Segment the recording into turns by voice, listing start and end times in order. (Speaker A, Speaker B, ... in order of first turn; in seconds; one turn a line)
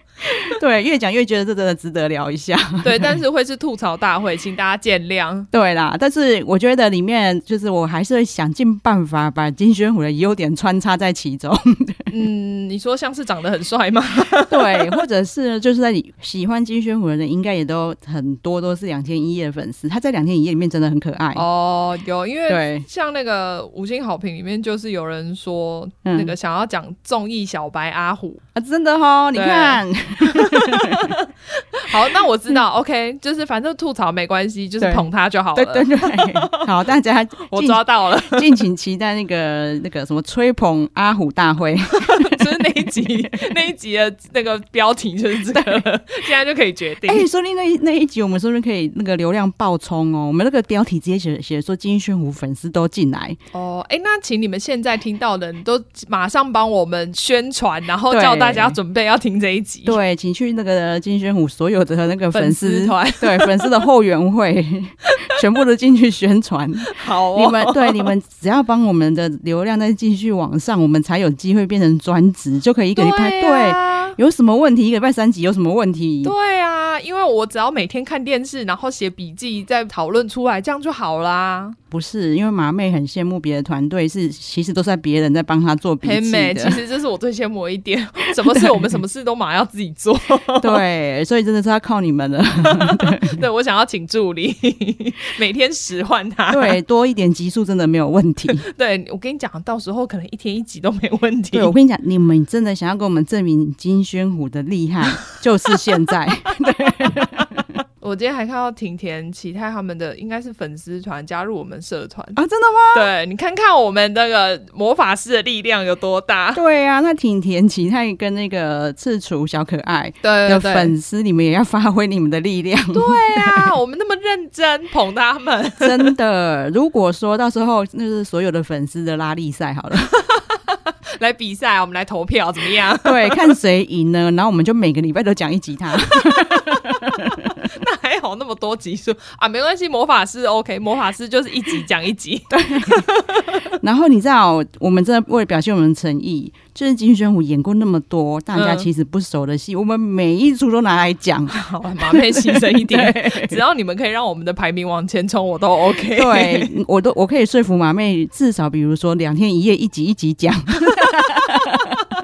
Speaker A: 0.3-3.2
Speaker B: 2.8-5.5
Speaker A: 5.5-12.1
Speaker B: 12.1-14.9
Speaker A: 14.5-21.4
Speaker B: 21.3-28.4
Speaker A: 22.5-22.8
Speaker A: 26.0-26.3
Speaker A: 28.5-31.1
Speaker B: 29.3-36.6
Speaker A: 34.8-43.5
Speaker B: 37.4-38.6
Speaker B: 41.9-47.3
Speaker A: 45.5-45.8
Speaker A: 47.0-53.4
Speaker B: 53.5-60.0
Speaker A: 58.1-58.8
Speaker A: 59.8-76.3
Speaker B: 62.3-63.7
Speaker B: 65.1-65.4
Speaker B: 66.9-68.1
Speaker B: 73.0-74.2
Speaker B: 76.2-81.8
Speaker A: 81.9-86.8
Speaker B: 86.0-90.8
Speaker A: 88.4-88.9
Speaker A: 90.6-93.4
Speaker B: 92.6-96.8
Speaker A: 96.5-98.6
Speaker B: 98.6-101.7
Speaker A: 101.5-107.8
Speaker B: 108.0-112.4
Speaker A: 112.3-113.1
Speaker B: 112.9-116.6
Speaker A: 116.5-123.7
Speaker B: 120.2-120.9
Speaker B: 122.9-126.1
Speaker A: 125.8-130.1
Speaker B: 130.2-133.5
Speaker A: 133.0-137.5
Speaker B: 136.2-137.0
Speaker B: 137.6-143.6
Speaker A: 142.5-143.1
Speaker A: 143.8-151.5
Speaker B: 148.5-148.9
Speaker B: 151.5-156.7
Speaker A: 152.1-153.6
Speaker A: 156.1-162.0